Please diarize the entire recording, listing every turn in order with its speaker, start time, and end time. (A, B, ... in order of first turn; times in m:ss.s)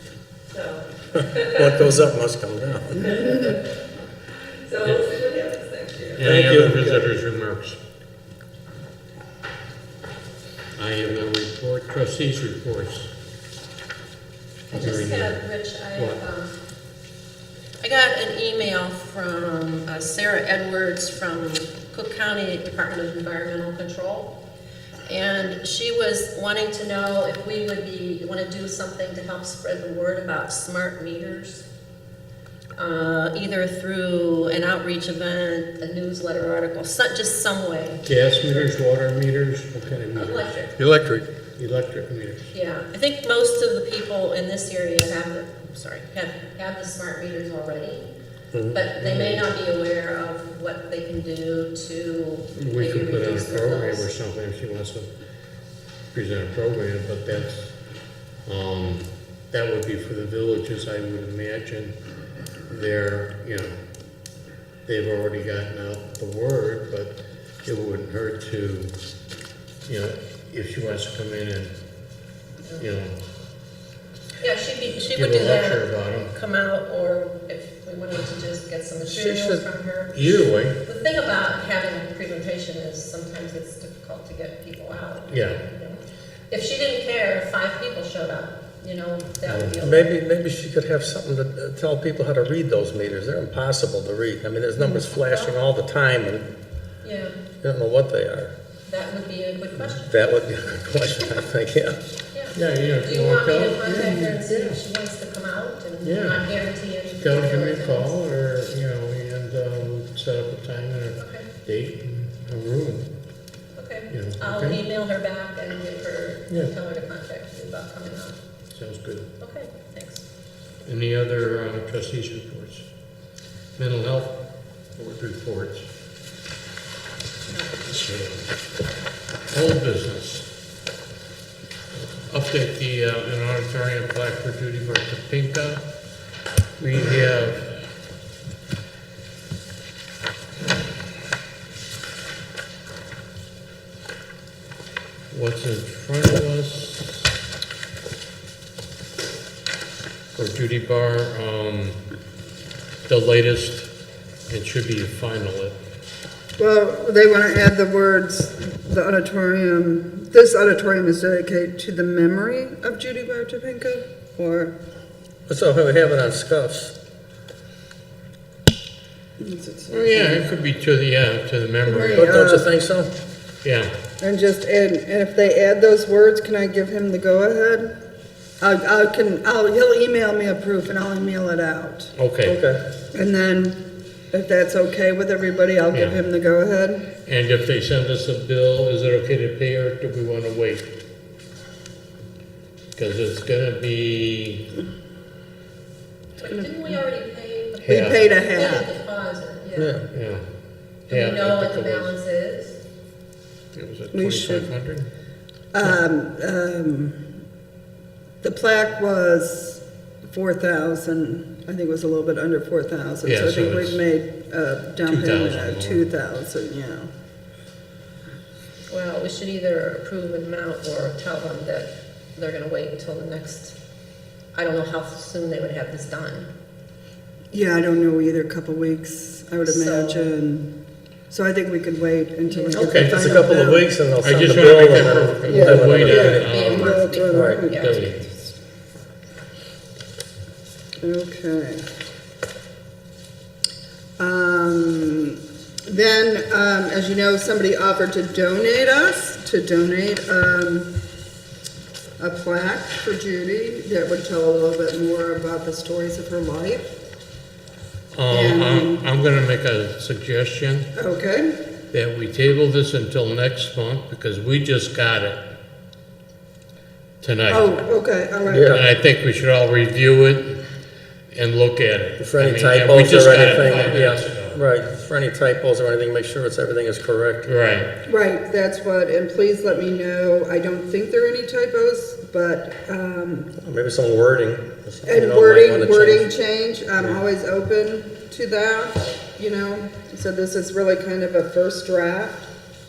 0:00.5-0:00.8 A
0:01.2-0:03.0 B
0:03.1-0:03.5 A
0:04.7-0:06.2 A
0:04.8-0:05.1 C
0:06.2-0:07.8 C
0:06.2-0:07.0 B
0:10.8-0:13.1 C
0:14.7-0:16.5 D
0:14.7-0:15.4 C
0:16.0-0:16.2 C
0:17.8-0:24.4 D
0:25.1-0:31.6 D
0:32.8-0:38.1 D
0:38.0-0:40.6 C
0:40.1-0:40.7 D
0:40.8-0:41.3 B
0:41.6-0:42.5 C
0:42.5-0:48.1 D
0:48.7-0:54.1 D
0:49.0-0:49.5 C
0:52.6-0:55.1 C
0:56.1-0:57.7 C
0:58.4-1:01.9 C
1:02.7-1:03.8 C
1:04.9-1:08.9 C
1:09.9-1:11.7 C
1:12.8-1:13.2 C
1:14.4-1:30.1 D
1:15.1-1:16.3 C
1:19.0-1:19.6 B
1:20.1-1:20.8 C
1:25.3-1:25.6 C
1:29.4-1:29.9 C
1:29.8-1:36.5 B
1:34.9-1:35.6 D
1:37.0-1:37.3 D
1:37.6-1:38.5 B
1:38.9-1:40.1 D
1:40.1-1:42.0 B
1:42.3-1:48.1 D
1:42.5-1:44.8 C
1:46.0-1:46.5 C
1:47.2-1:53.1 C
1:51.2-1:51.5 D
1:53.8-1:58.4 D
1:54.1-1:54.8 C
1:58.7-1:59.3 C
1:59.4-2:00.2 D
2:00.8-2:02.8 C
2:03.8-2:04.4 C
2:05.0-2:05.9 C
2:07.7-2:08.5 C
2:09.5-2:10.5 C
2:12.3-2:15.9 C
2:16.8-2:17.8 C
2:25.3-2:27.3 C
2:30.4-2:32.0 C
2:33.1-2:33.9 C
2:34.5-2:35.8 C
2:36.6-2:44.7 E
2:45.5-2:46.9 B
2:49.4-2:50.5 E
2:49.9-2:52.4 C
2:51.8-2:52.8 E
2:52.1-2:53.1 B
2:53.6-2:53.9 C
2:54.2-2:57.9 E
2:58.6-3:02.1 E
3:02.2-3:02.6 C
3:02.4-3:02.8 B
3:03.1-3:07.1 E
3:05.9-3:06.2 C
3:07.3-3:10.9 C
3:13.0-3:14.7 C
3:16.4-3:20.0 D
3:17.8-3:18.2 C
3:17.9-3:18.9 E
3:19.8-3:20.1 B
3:20.1-3:20.4 C
3:21.1-3:22.1 C
3:21.1-3:22.8 D
3:23.7-3:25.1 C
3:24.1-3:24.7 E
3:25.7-3:27.3 E
3:28.4-3:37.1 E
3:33.2-3:34.0 C
3:35.0-3:36.1 C
3:38.9-3:43.8 D
3:44.5-3:46.5 D
3:47.5-3:50.8 E
3:49.7-3:50.3 D
3:51.3-3:53.9 E
3:52.5-3:53.5 D
3:52.7-3:53.3 C
3:53.1-3:56.5 B
3:54.2-3:58.2 C
3:55.4-3:58.5 E
3:56.2-3:58.2 D
3:57.3-3:57.6 B
4:01.0-4:01.8 E
4:04.2-4:11.0 E
4:12.2-4:16.9 E
4:18.1-4:20.9 C
4:18.3-4:19.0 E
4:21.0-4:21.6 E
4:21.9-4:25.4 C
4:27.2-4:27.7 C
4:27.5-4:28.7 E
4:28.5-4:28.8 B
4:28.7-4:30.6 C
4:31.3-4:34.6 C
4:32.2-4:37.5 B
4:37.4-4:37.9 C
4:38.0-4:43.5 E
4:43.6-4:46.3 B
4:45.0-4:52.5 E